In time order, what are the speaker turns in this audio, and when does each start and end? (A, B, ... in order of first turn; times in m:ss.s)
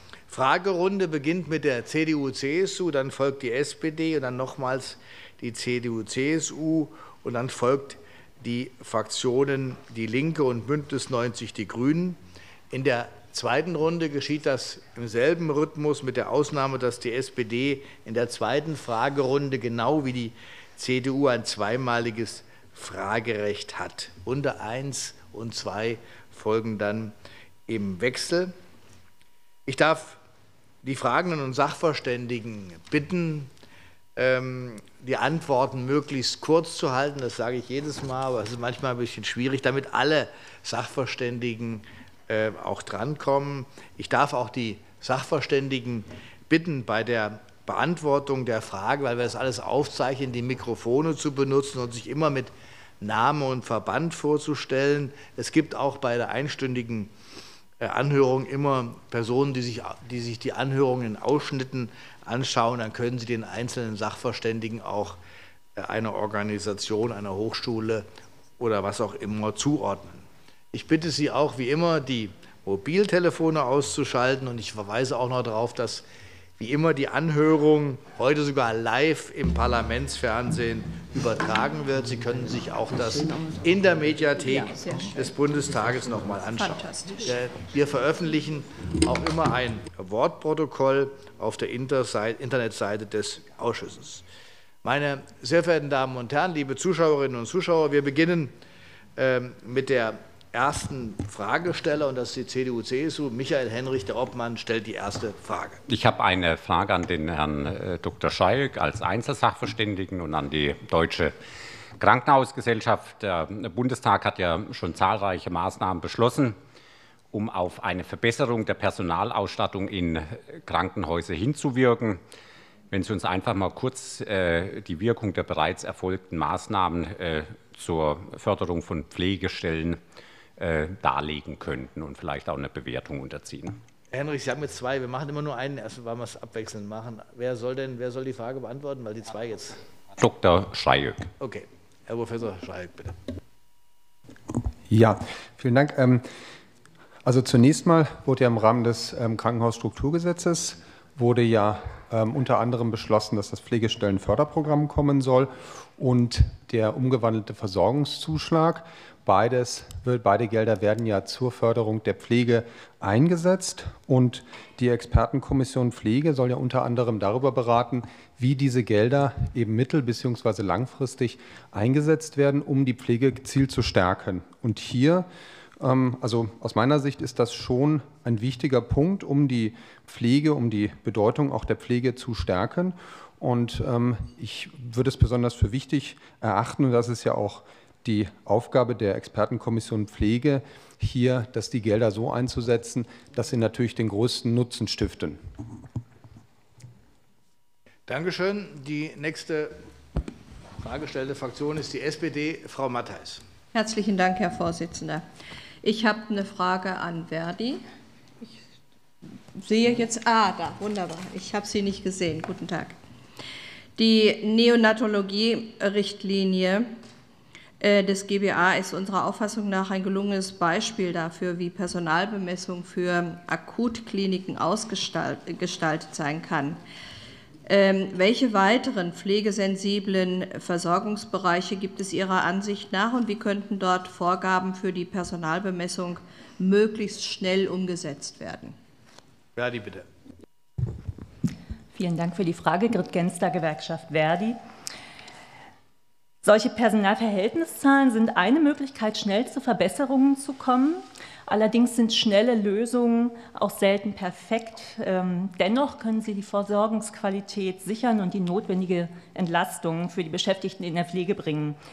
0:00.3-0:12.2 A
0:12.7-0:27.1 A
0:27.7-0:28.5 A
0:29.6-0:30.2 A
0:30.8-0:33.5 A
0:34.2-0:57.1 A
0:57.8-1:05.2 A
1:05.8-1:08.0 A
1:08.6-1:16.0 A
1:16.6-1:34.2 A
1:24.8-1:25.0 B
1:26.6-1:27.3 B
1:34.8-1:38.5 A
1:39.2-1:45.8 A
1:45.9-1:51.4 C
1:52.0-1:56.6 C
1:57.3-2:02.2 C
2:02.9-2:10.0 C
2:10.6-2:13.8 C
2:14.1-2:19.8 A
2:20.2-2:21.3 C
2:21.4-2:23.2 A
2:24.9-2:26.2 D
2:27.2-2:55.3 D
2:55.8-3:15.4 D
3:18.1-3:19.8 A
3:20.8-3:23.4 A
3:23.7-3:25.2 B
3:25.8-3:27.8 B
3:29.5-3:33.0 B
3:34.0-3:36.9 B
3:37.8-3:46.8 B
3:47.6-3:58.8 B
3:59.6-4:00.0 A
4:01.9-4:04.6 E
4:06.4-4:21.8 E